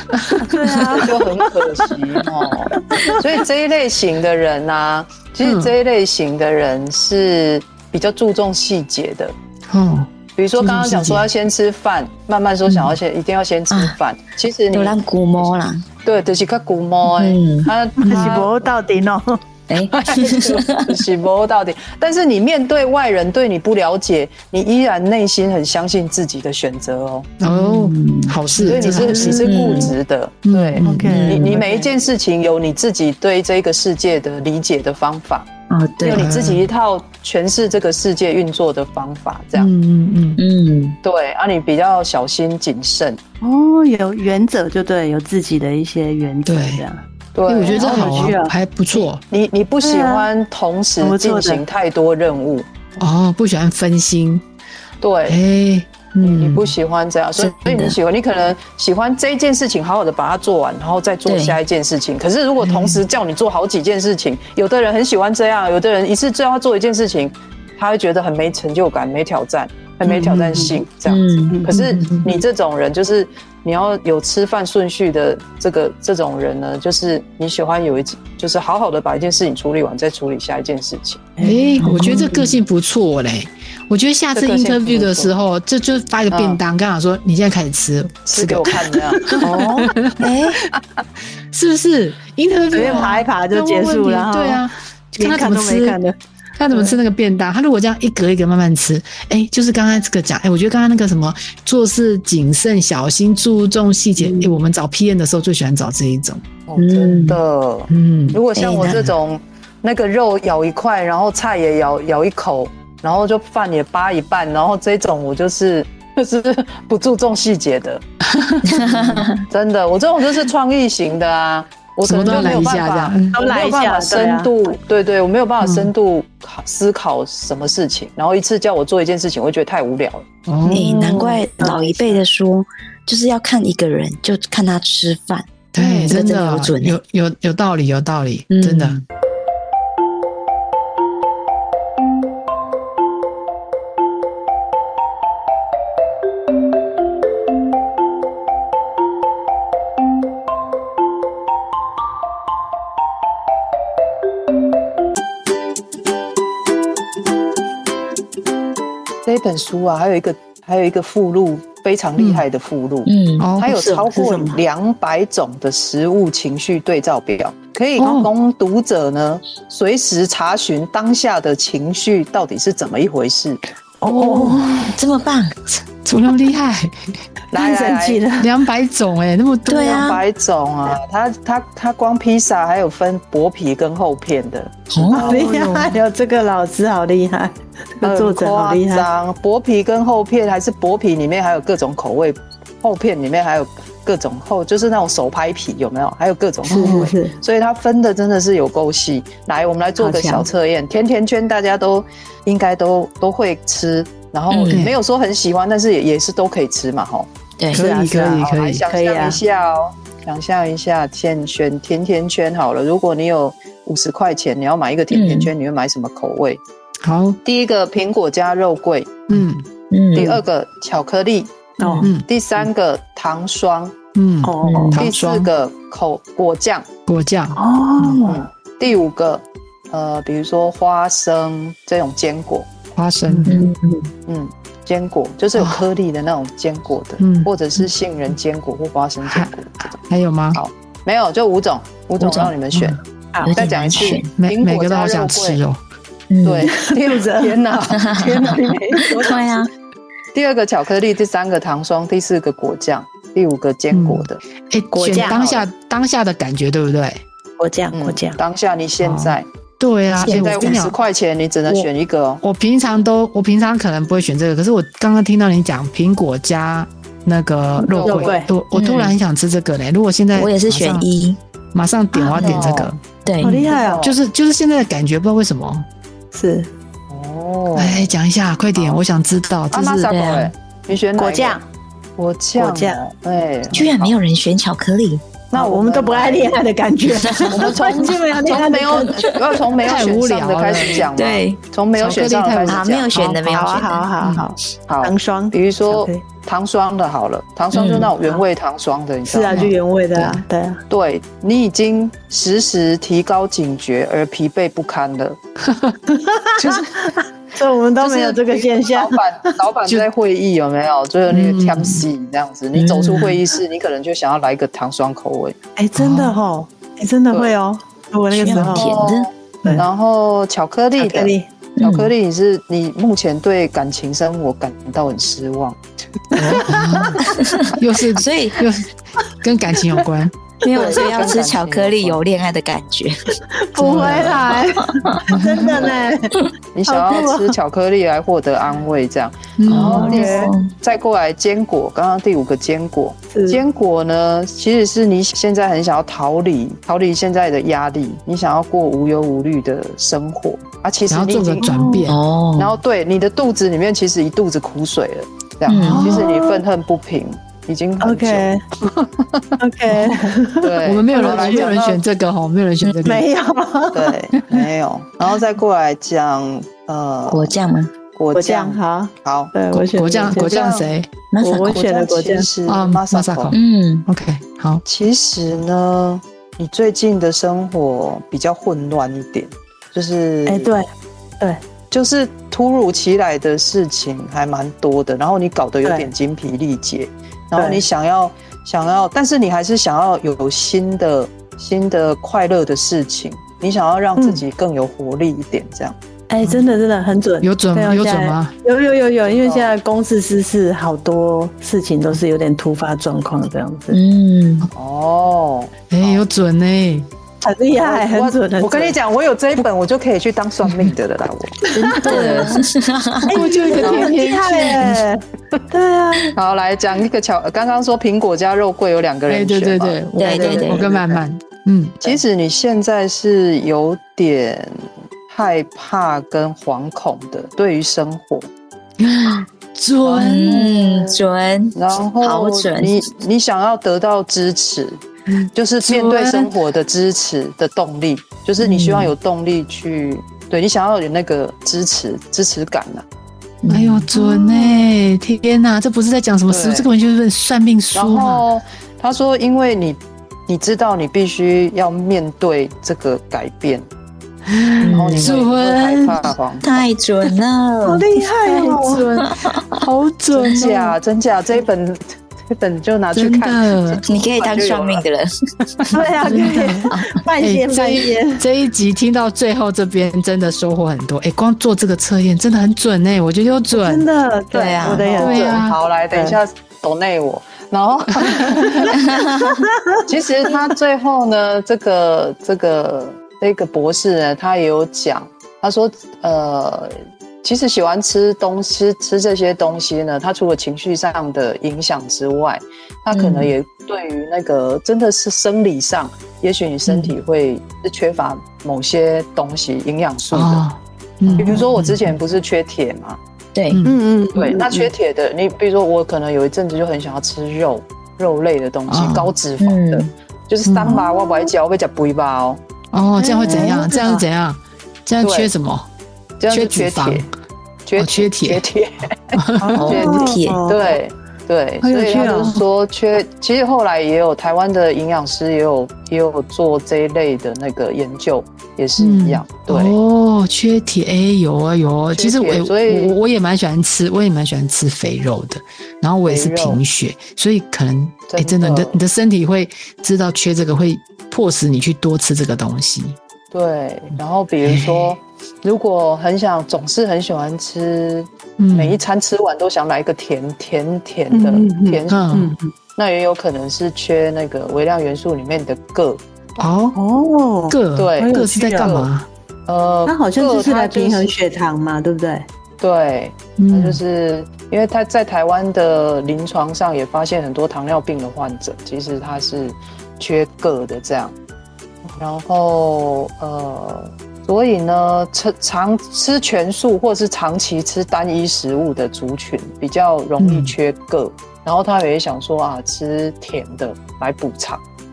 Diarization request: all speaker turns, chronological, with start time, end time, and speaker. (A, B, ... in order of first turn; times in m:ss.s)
0:00.1-0:00.5 A
0:00.4-0:01.2 B
0:01.0-0:09.3 C
0:05.4-0:05.7 A
0:09.7-0:11.3 A
0:10.4-0:15.5 C
0:14.7-0:15.8 D
0:16.0-0:18.6 C
0:17.1-0:17.7 D
0:18.0-0:19.4 B
0:18.1-0:18.3 A
0:19.7-0:21.0 D
0:19.9-0:27.3 C
0:27.4-0:29.8 A
0:27.4-0:30.0 D
0:28.6-0:35.5 C
0:29.2-0:29.8 B
0:30.4-0:31.2 A
0:30.8-0:31.9 B
0:31.1-0:31.6 D
0:35.7-0:36.3 D
0:36.0-0:39.7 C
0:36.1-0:36.7 A
0:39.5-0:40.4 A
0:40.4-0:41.0 D
0:41.0-0:43.2 C
0:43.4-0:47.0 B
0:46.4-0:46.8 A
0:47.3-0:48.4 C
0:47.4-0:49.2 A
0:47.7-0:48.5 B
0:48.9-0:52.6 C
0:49.8-0:50.3 B
0:51.0-0:51.6 B
0:53.0-0:54.4 A
0:55.0-0:55.4 C
0:55.3-0:56.7 A
0:56.2-1:21.3 C
0:57.4-0:58.0 D
1:01.2-1:01.6 D
1:02.6-1:03.0 A
1:10.1-1:10.8 B
1:11.0-1:11.7 D
1:11.7-1:12.3 A
1:21.4-1:22.5 B
1:21.4-1:30.4 A
1:21.8-1:22.3 D
1:24.3-1:25.4 C
1:26.3-1:26.6 C
1:28.2-1:29.9 C
1:29.4-1:30.6 D
1:31.5-1:36.0 A
1:32.7-1:36.1 B
1:36.6-1:46.4 A
1:36.7-1:37.0 B
1:44.2-1:44.5 B
1:46.7-1:58.0 C
1:46.8-1:47.4 D
1:47.9-1:48.4 A
1:48.6-1:49.1 D
1:58.3-1:58.9 A
1:58.7-1:59.3 D
1:58.8-2:10.3 C
2:02.0-2:03.3 A
2:03.3-2:04.5 B
2:05.6-2:05.9 A
2:10.4-2:10.9 A
2:10.7-2:12.2 B
2:10.7-2:16.9 D
2:15.7-2:19.0 A
2:18.5-2:19.0 D
2:39.2-2:53.6 C
2:42.2-2:42.4 A
2:43.0-2:43.5 D
2:43.4-2:43.7 A
2:43.7-2:44.6 B
2:48.0-2:48.3 A
2:54.0-2:54.9 B
2:54.1-2:54.8 A
2:54.6-2:55.8 D
2:56.0-2:56.9 A
2:57.5-2:58.2 C
2:57.5-2:58.5 B
2:58.4-3:00.1 A
2:59.6-3:00.2 D
2:59.8-3:05.5 C
3:04.9-3:05.3 D
3:04.9-3:06.0 A
3:05.1-3:09.1 B
3:08.0-3:27.3 C
3:16.6-3:17.3 B
3:16.8-3:17.1 A
3:20.0-3:20.5 B
3:24.5-3:24.8 D
3:24.7-3:25.0 A
3:27.7-3:28.8 A
3:27.7-3:29.4 B
3:28.2-3:36.6 C
3:35.1-3:35.5 D
3:37.0-3:37.4 A
3:37.4-3:39.4 C
3:39.3-3:39.6 A
3:39.9-3:40.4 D
3:40.1-3:41.7 C
3:41.8-3:42.1 B
3:41.8-3:42.1 D
3:42.0-3:42.2 A
3:42.2-3:44.0 C
3:44.1-3:45.5 A
3:44.4-3:45.0 B
3:44.6-3:45.0 D
3:45.0-3:46.9 C
3:47.1-3:48.2 A
3:47.6-3:48.4 B
3:48.2-3:52.7 C
3:52.9-3:53.6 A
3:53.3-3:53.7 B
3:53.5-3:54.0 D
3:54.3-3:59.7 C
3:55.6-3:55.8 A
3:57.2-3:57.5 A
3:59.2-4:00.6 A
4:00.5-4:03.0 C
4:02.2-4:02.5 D
4:03.3-4:04.2 B
4:03.4-4:04.3 D
4:03.5-4:05.6 C
4:04.3-4:05.8 A
4:06.3-4:06.7 D
4:06.4-4:09.4 C
4:06.6-4:07.6 B
4:07.9-4:08.4 D
4:08.2-4:09.2 B
4:09.1-4:09.7 D
4:10.3-4:14.4 C
4:13.9-4:17.2 A
4:14.9-4:15.7 C
4:15.0-4:15.4 B
4:17.6-4:18.4 B
4:17.9-4:19.4 C
4:19.0-4:20.9 A
4:20.1-4:22.4 C
4:20.2-4:20.8 D
4:22.4-4:31.1 A
4:27.8-4:28.5 B
4:27.9-4:28.4 C
4:28.7-4:29.1 D
4:30.3-4:31.4 D
4:31.7-4:33.0 A
4:32.3-4:32.6 D
4:32.3-4:34.2 C
4:33.2-4:33.6 D
4:33.4-4:34.0 B
4:33.9-4:35.8 A
4:36.3-4:36.7 B
4:37.1-4:38.1 C
4:37.7-4:40.1 A
4:38.7-4:39.0 C
4:39.7-4:41.6 C
4:40.1-4:40.5 D
4:41.2-4:41.6 B
4:42.2-4:44.2 C
4:42.6-4:43.0 B
4:43.7-4:45.3 D
4:45.5-4:46.6 C
4:45.5-4:49.4 B
4:47.2-4:48.0 D
4:47.5-4:53.2 C
4:49.8-4:51.1 A
4:51.0-4:51.6 D
4:52.0-4:53.6 A
4:52.6-4:54.4 D
4:53.5-4:56.2 B
4:54.9-4:59.7 C
4:57.7-4:58.1 D
4:59.2-5:00.8 B
4:59.5-5:00.4 A
5:00.9-5:05.4 C
5:06.1-5:09.2 B
5:06.6-5:07.0 C
5:08.0-5:15.5 C
5:11.3-5:12.0 A
5:12.9-5:13.2 A
5:15.8-5:18.9 B
5:16.0-5:16.4 A
5:18.3-5:19.3 D
5:18.6-5:25.8 C
5:21.0-5:21.4 B
5:21.8-5:22.1 D
5:26.3-5:30.3 A
5:26.4-5:27.1 B
5:27.2-5:28.6 D
5:30.6-5:35.2 D
5:30.7-5:32.2 C
5:33.6-5:37.5 B
5:33.8-5:34.7 A
5:35.3-5:35.6 A
5:36.7-5:51.7 C
5:39.6-5:40.2 A
5:39.7-5:40.7 D
5:39.7-5:40.5 B
5:43.3-5:43.6 B
5:51.1-5:52.2 A
5:51.6-5:52.0 B
5:52.0-5:52.8 D
5:52.6-5:58.5 C
5:55.7-5:56.0 D
5:55.8-5:56.2 A
5:55.9-5:56.6 B
5:58.0-5:58.6 B
5:59.6-6:01.7 B
6:00.6-6:02.0 C
6:00.8-6:03.3 A
6:03.0-6:04.1 B
6:03.9-6:07.6 C
6:07.3-6:07.9 D
6:08.1-6:09.5 C
6:08.3-6:10.6 B
6:09.7-6:11.1 A
6:10.3-6:10.9 C
6:11.3-6:11.8 D
6:11.4-6:12.5 B
6:11.7-6:13.5 C
6:12.6-6:14.8 A
6:13.5-6:14.1 D
6:14.8-6:20.7 C
6:20.5-6:20.8 B
6:21.9-6:36.0 C
6:25.8-6:26.1 B
6:27.6-6:27.8 B
6:34.2-6:34.4 B
6:36.3-6:44.0 B
6:37.4-6:38.5 A
6:39.4-6:39.7 C
6:43.9-6:44.7 D
6:44.7-6:46.2 C
6:45.9-6:47.1 A
6:47.4-6:49.0 B
6:47.8-6:52.6 C
6:51.7-6:53.4 D
6:52.0-6:52.5 B
6:53.3-6:56.3 B
6:53.3-6:55.0 A
6:53.8-6:54.1 C
6:56.3-7:01.2 C
6:59.3-7:02.0 A
7:00.2-7:00.8 D
7:02.0-7:08.5 C
7:09.0-7:11.0 A
7:10.0-7:10.6 C
7:10.2-7:13.0 D
7:11.7-7:15.0 C
7:15.3-7:16.5 A
7:15.5-7:23.0 C
7:18.6-7:19.1 D
7:23.6-7:24.1 D
7:23.7-7:28.4 A
7:24.1-7:24.7 B
7:26.5-7:26.9 C
7:27.9-7:33.8 C
7:34.5-7:36.3 A
7:34.8-7:35.3 D
7:34.9-7:36.8 C
7:36.6-7:38.0 D
7:37.2-7:39.1 B
7:38.4-7:41.0 A
7:39.2-7:39.5 D
7:40.3-7:45.0 C
7:43.1-7:44.0 A
7:44.0-7:45.3 D
7:45.9-7:48.4 B
7:46.3-7:46.8 A
7:47.4-7:54.1 A
7:53.7-7:55.5 B
7:54.5-7:55.1 D
7:54.9-7:59.0 C
7:55.2-7:55.8 A
7:56.1-7:56.4 B
8:00.0-8:20.6 C
8:13.1-8:13.5 D
8:20.3-8:22.1 A
8:21.4-8:23.2 C
8:23.5-8:23.8 D
8:23.7-8:24.0 A
8:23.8-8:24.9 B
8:24.3-8:32.6 C
8:28.9-8:29.3 A
8:29.6-8:30.1 D
8:30.6-8:31.0 A
8:32.9-8:35.9 A
8:33.2-8:34.2 B
8:35.2-8:35.5 C
8:36.4-8:37.3 C
8:36.5-8:37.3 A
8:37.8-8:50.0 C
8:38.0-8:38.6 A
8:39.3-8:39.8 A
8:39.6-8:41.0 B
8:39.8-8:40.6 D
8:41.8-8:42.6 B
8:49.0-9:03.2 A
8:52.1-8:53.1 C
8:56.2-8:56.8 C
8:58.3-8:59.0 C
9:03.5-9:12.3 C
9:04.6-9:05.2 A
9:08.6-9:09.0 A
9:11.3-9:12.7 B
9:12.1-9:12.5 A
9:13.0-9:16.2 C
9:16.6-9:17.0 A
9:16.9-9:18.9 B
9:17.7-9:19.3 A
9:18.0-9:19.1 C
9:19.7-9:21.3 C
9:20.0-9:22.4 B
9:22.8-9:31.3 C
9:23.6-9:24.0 A
9:32.1-9:44.8 C
9:40.4-9:40.7 A